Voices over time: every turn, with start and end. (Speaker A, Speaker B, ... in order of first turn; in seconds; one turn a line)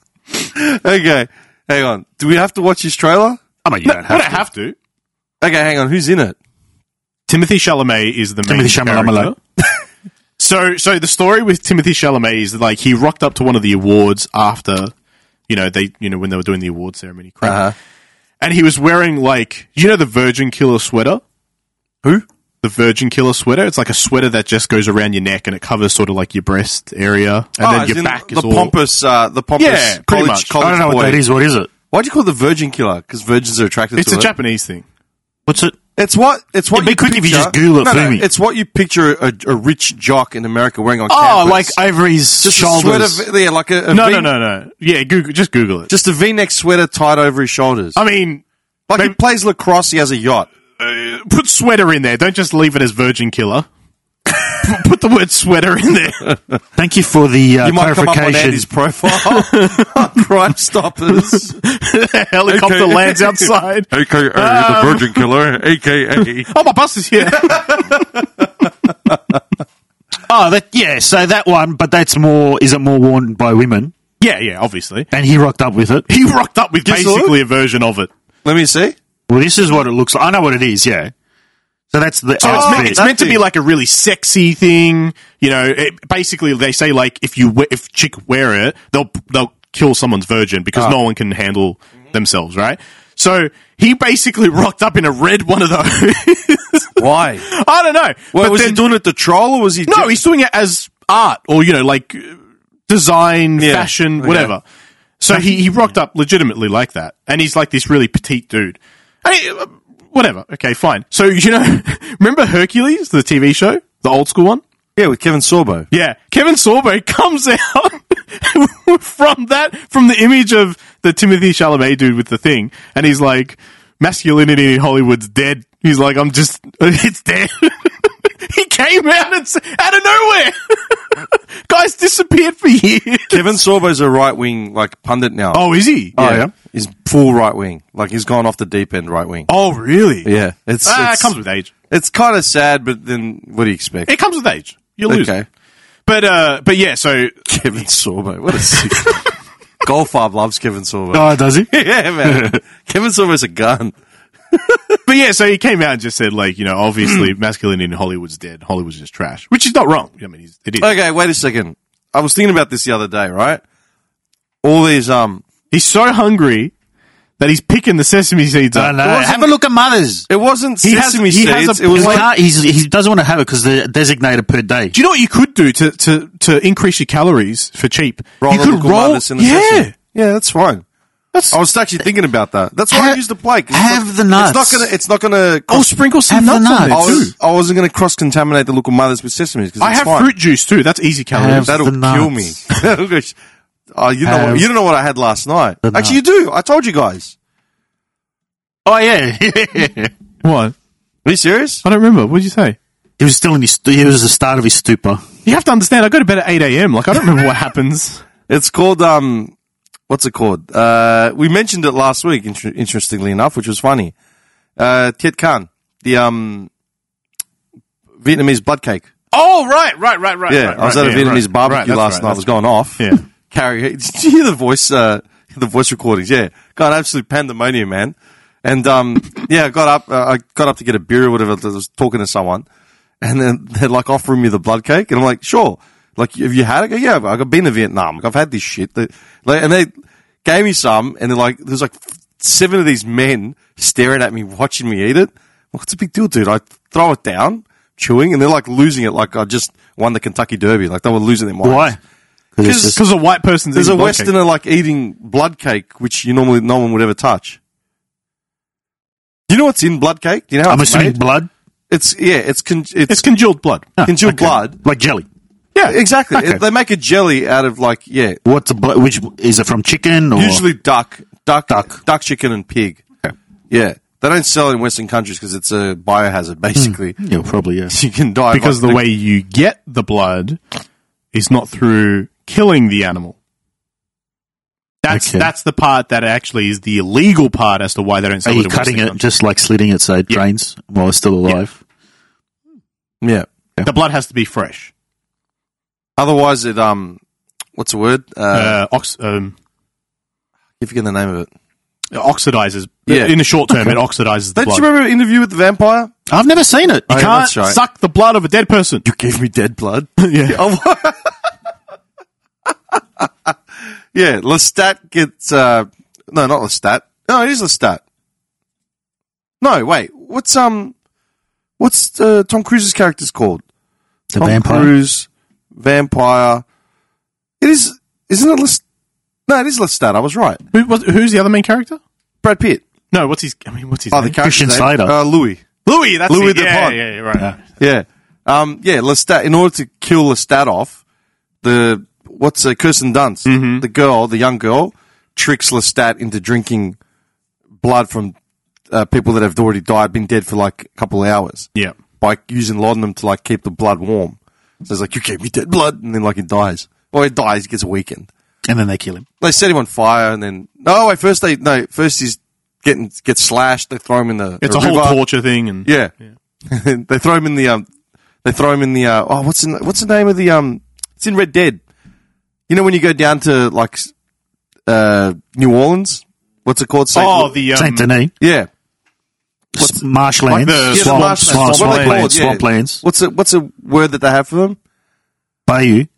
Speaker A: 0.5-3.4
Speaker B: 3.6-4.5
Speaker C: 3.8-4.8
Speaker A: 5.4-6.3
Speaker C: 7.3-9.4
Speaker B: 8.4-9.3
Speaker C: 10.4-14.9
Speaker C: 15.5-17.7
Speaker A: 17.4-17.7
Speaker C: 18.4-21.2
Speaker C: 22.6-28.7
Speaker A: 27.6-31.2
Speaker C: 29.6-30.5
Speaker B: 30.6-31.7
Speaker A: 31.9-34.3
Speaker C: 34.0-34.8
Speaker B: 35.5-35.8
Speaker A: 36.0-41.8
Speaker B: 36.7-38.3
Speaker B: 41.1-43.2
Speaker A: 42.4-44.3
Speaker C: 43.9-45.9
Speaker A: 45.9-48.0
Speaker C: 48.0-48.4
Speaker A: 48.9-50.5
Speaker C: 50.8-53.7
Speaker C: 54.3-56.3
Speaker B: 56.8-58.7
Speaker A: 57.6-61.6
Speaker C: 59.2-60.0
Speaker C: 61.1-65.3
Speaker A: 62.5-66.5
Speaker C: 66.5-68.0
Speaker A: 67.4-68.0
Speaker B: 70.3-73.9
Speaker C: 74.2-75.1
Speaker B: 75.1-76.1
Speaker C: 76.1-78.1
Speaker A: 76.8-77.3
Speaker A: 78.4-78.9
Speaker B: 79.3-81.1
Speaker B: 81.9-83.0
Speaker C: 82.4-98.8
Speaker A: 82.4-83.4
Speaker A: 97.0-97.4
Speaker A: 98.3-100.2
Speaker C: 99.9-102.4
Speaker C: 102.9-104.6
Speaker A: 103.6-104.5
Speaker C: 105.2-114.6
Speaker A: 115.0-115.9
Speaker C: 115.9-133.6
Speaker A: 133.3-139.5
Speaker C: 135.5-136.5
Speaker C: 139.5-140.3
Speaker A: 140.2-141.3
Speaker C: 140.8-141.7
Speaker A: 141.9-144.1
Speaker C: 144.1-145.3
Speaker A: 145.1-145.4
Speaker C: 146.1-147.4
Speaker A: 147.5-149.2
Speaker C: 148.7-149.2
Speaker A: 149.8-153.9
Speaker B: 151.1-152.6
Speaker A: 154.5-155.0
Speaker C: 155.1-160.9
Speaker A: 160.8-163.6
Speaker A: 164.6-165.4
Speaker C: 165.7-166.7
Speaker C: 167.4-169.5
Speaker B: 168.7-170.3
Speaker A: 170.3-172.2
Speaker C: 170.8-172.3
Speaker B: 171.9-175.0
Speaker C: 174.9-179.9
Speaker A: 178.4-180.8
Speaker A: 181.5-185.9
Speaker B: 182.9-184.9
Speaker C: 185.7-187.3
Speaker B: 186.3-187.3
Speaker A: 186.9-190.3
Speaker C: 189.8-191.8
Speaker B: 191.3-192.5
Speaker A: 191.7-193.3
Speaker A: 193.9-197.3
Speaker B: 194.2-194.7
Speaker B: 195.8-196.2
Speaker B: 198.8-200.1
Speaker C: 200.4-200.7
Speaker A: 201.2-201.8
Speaker C: 201.8-202.8
Speaker B: 203.2-205.2
Speaker C: 205.4-208.2
Speaker A: 208.5-209.5
Speaker A: 210.1-214.1
Speaker A: 214.8-216.7
Speaker A: 218.2-219.1
Speaker C: 219.3-223.2
Speaker A: 220.5-232.7
Speaker A: 233.2-239.9
Speaker A: 240.4-251.9
Speaker B: 251.6-252.0
Speaker B: 252.5-253.0
Speaker A: 252.6-252.9
Speaker C: 252.7-254.3
Speaker A: 253.7-257.6
Speaker A: 259.5-261.2
Speaker B: 260.6-261.5
Speaker A: 261.9-263.2
Speaker C: 263.1-263.9
Speaker B: 264.0-265.3
Speaker A: 264.0-264.8
Speaker A: 265.9-268.4
Speaker B: 266.3-266.6
Speaker B: 268.4-270.6
Speaker A: 270.3-273.0
Speaker B: 271.7-272.0
Speaker A: 273.7-277.2
Speaker B: 276.7-277.9
Speaker A: 277.9-279.0
Speaker C: 278.5-280.6
Speaker C: 281.3-283.3
Speaker C: 285.0-289.2
Speaker B: 285.1-285.5
Speaker B: 288.4-291.8
Speaker A: 293.2-293.5
Speaker C: 293.8-294.9
Speaker A: 296.2-297.2
Speaker A: 297.8-298.8
Speaker C: 298.5-299.5
Speaker A: 300.8-301.5
Speaker C: 302.1-304.8
Speaker A: 303.1-303.4
Speaker B: 303.7-304.0
Speaker A: 304.6-306.1
Speaker B: 306.3-307.4
Speaker A: 307.1-307.8
Speaker C: 307.1-309.0
Speaker A: 309.0-311.3
Speaker C: 310.2-310.6
Speaker A: 312.9-313.5
Speaker A: 314.1-318.0
Speaker A: 319.6-320.9
Speaker A: 321.8-323.6
Speaker B: 324.3-324.9
Speaker A: 324.4-326.6
Speaker A: 327.6-328.8
Speaker A: 329.5-330.6
Speaker C: 330.7-332.0
Speaker A: 332.4-332.8
Speaker C: 333.1-334.4
Speaker A: 334.1-335.6
Speaker B: 334.4-335.1
Speaker C: 335.8-337.5
Speaker A: 336.3-337.0
Speaker A: 337.8-341.0
Speaker A: 341.6-347.0
Speaker C: 343.4-343.8
Speaker A: 347.8-348.3
Speaker A: 348.9-358.3
Speaker B: 358.6-359.2
Speaker A: 359.4-365.2
Speaker C: 364.6-365.9
Speaker A: 365.8-366.1
Speaker A: 366.7-367.9
Speaker A: 368.4-371.8
Speaker A: 372.7-374.1
Speaker A: 374.9-377.6
Speaker C: 377.1-378.1
Speaker B: 377.7-378.3
Speaker A: 378.4-378.7
Speaker B: 379.8-383.0
Speaker C: 380.5-382.3
Speaker A: 380.9-384.8
Speaker B: 385.6-386.1